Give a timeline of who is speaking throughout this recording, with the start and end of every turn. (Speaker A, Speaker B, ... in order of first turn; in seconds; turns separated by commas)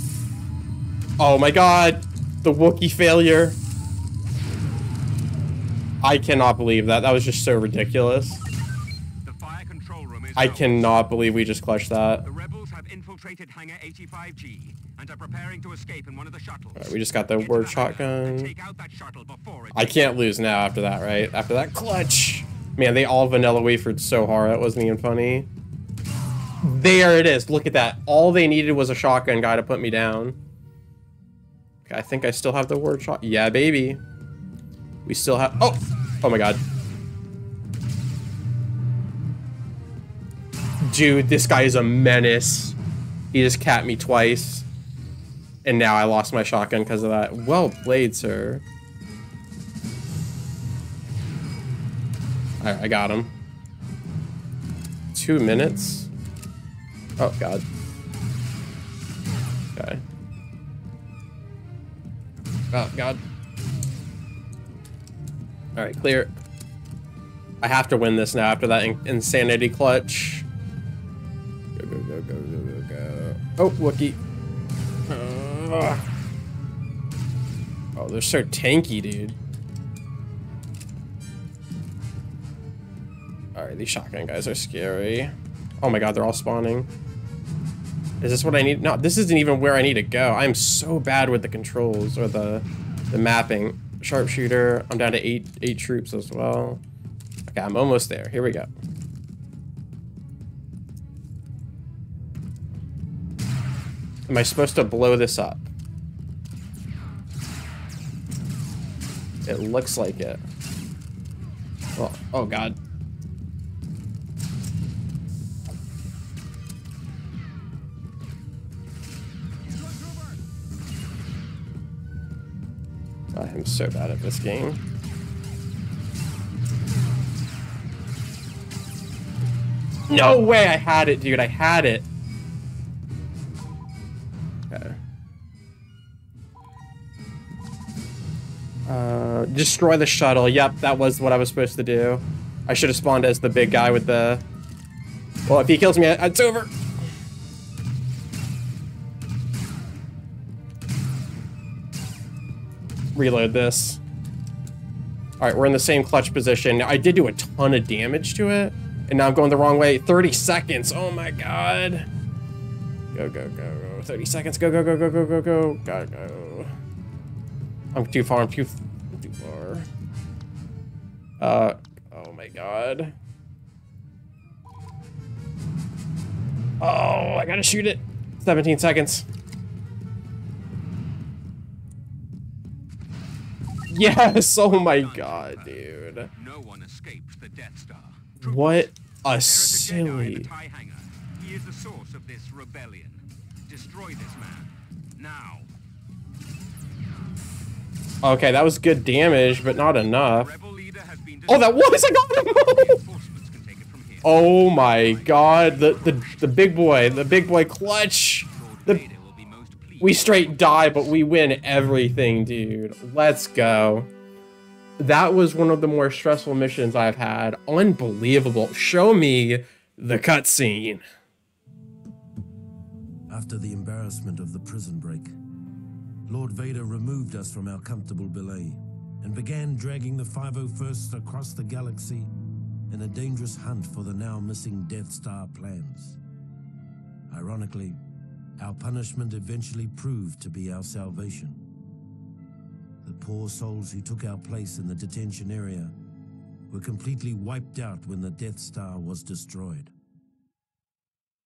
Speaker A: 1.2-3.6, Speaker A: 6.0-8.4, Speaker B: 9.2-10.8, Speaker A: 10.4-12.3, Speaker B: 12.2-20.1, Speaker A: 16.8-18.5, Speaker A: 19.7-25.5, Speaker A: 26.6-30.4, Speaker A: 31.9-34.0, Speaker A: 35.1-36.6, Speaker A: 40.8-42.8, Speaker A: 43.3-44.7, Speaker A: 45.6-48.6, Speaker A: 52.6-53.3, Speaker A: 55.1-56.1, Speaker A: 57.2-57.6, Speaker A: 59.8-60.0, Speaker A: 62.7-63.2, Speaker A: 65.8-66.3, Speaker A: 67.6-70.5, Speaker A: 71.8-74.2, Speaker A: 75.1-76.0, Speaker A: 78.0-79.4, Speaker A: 83.5-86.9, Speaker A: 88.2-96.8, Speaker A: 97.5-98.7, Speaker A: 104.3-105.6, Speaker A: 109.5-110.4, Speaker A: 112.0-112.8, Speaker A: 123.3-124.8, Speaker A: 130.1-132.1, Speaker A: 134.7-135.0, Speaker A: 138.9-144.4, Speaker A: 145.5-146.8, Speaker A: 153.2-154.0, Speaker A: 155.4-162.1, Speaker A: 163.1-166.7, Speaker A: 167.9-169.9, Speaker A: 171.4-173.2, Speaker A: 176.8-179.3, Speaker A: 183.9-186.3, Speaker B: 184.7-188.9, Speaker A: 188.4-190.5, Speaker B: 189.4-195.7, Speaker A: 198.2-200.5, Speaker B: 200.3-207.5, Speaker A: 201.5-203.0, Speaker A: 204.2-209.0, Speaker B: 208.5-211.1, Speaker A: 210.0-214.1, Speaker A: 215.0-221.0, Speaker C: 223.3-225.3, Speaker C: 226.3-232.3, Speaker C: 232.9-236.2, Speaker C: 237.3-238.0, Speaker C: 238.6-241.6, Speaker C: 243.0-245.9, Speaker C: 246.7-249.9